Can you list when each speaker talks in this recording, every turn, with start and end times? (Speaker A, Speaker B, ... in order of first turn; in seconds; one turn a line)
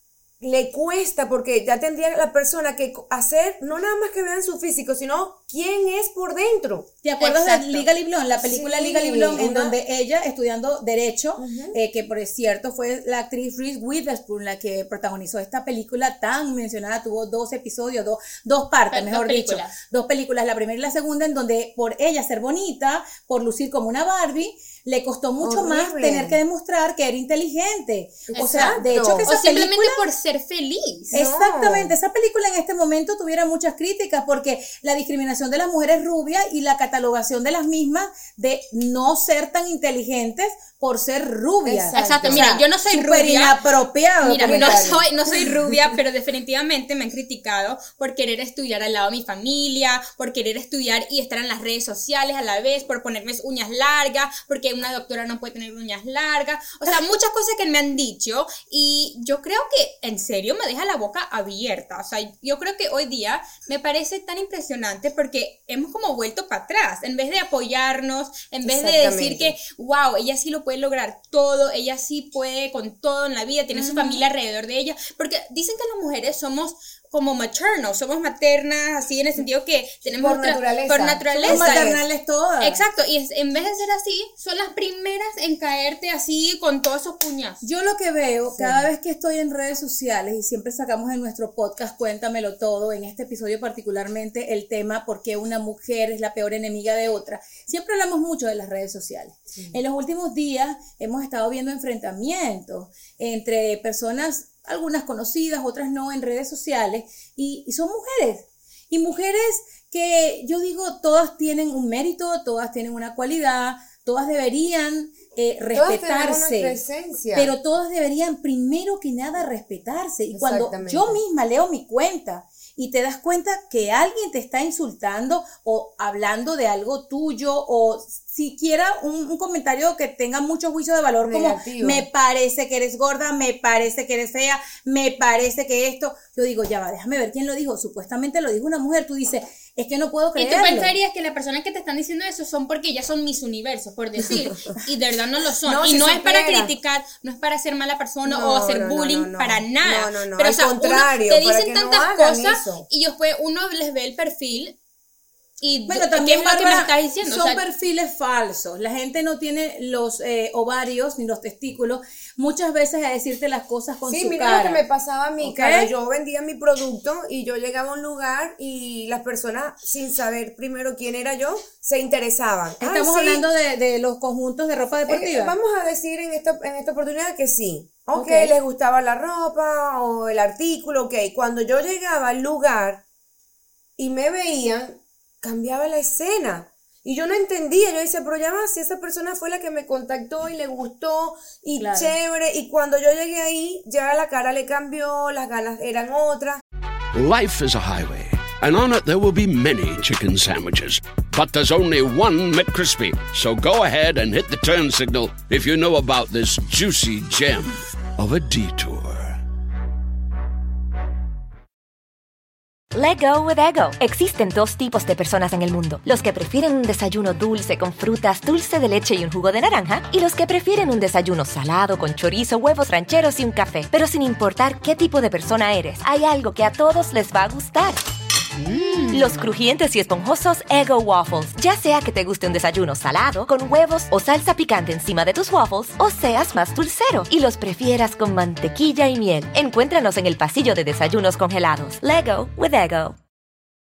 Speaker A: 0.4-6.9
Speaker B: 7.0-30.0
Speaker C: 7.2-7.9
Speaker A: 8.4-9.7
Speaker A: 11.4-11.8
Speaker C: 18.9-19.8
Speaker A: 25.4-26.4
Speaker C: 28.3-31.1
Speaker A: 28.4-29.3
Speaker A: 31.1-31.9
Speaker B: 31.1-44.9
Speaker A: 41.6-42.5
Speaker C: 41.9-43.5
Speaker C: 44.2-81.9
Speaker A: 44.4-45.0
Speaker A: 68.6-69.5
Speaker B: 73.7-74.3
Speaker A: 80.2-82.0
Speaker B: 81.4-82.8
Speaker C: 82.6-87.6
Speaker B: 87.6-116.8
Speaker A: 88.5-88.9
Speaker A: 115.7-117.5
Speaker B: 117.3-140.9
Speaker A: 120.3-121.2
Speaker A: 131.2-132.1
Speaker C: 140.3-154.8
Speaker A: 145.6-146.7
Speaker A: 148.2-152.8
Speaker C: 155.6-157.6
Speaker B: 155.9-164.8
Speaker A: 164.1-173.5
Speaker B: 165.4-165.9
Speaker B: 172.8-175.6
Speaker A: 175.1-183.0
Speaker B: 178.1-178.5
Speaker A: 184.0-196.6
Speaker B: 191.8-192.2
Speaker D: 197.1-209.4
Speaker E: 212.9-228.0
Speaker E: 229.1-243.2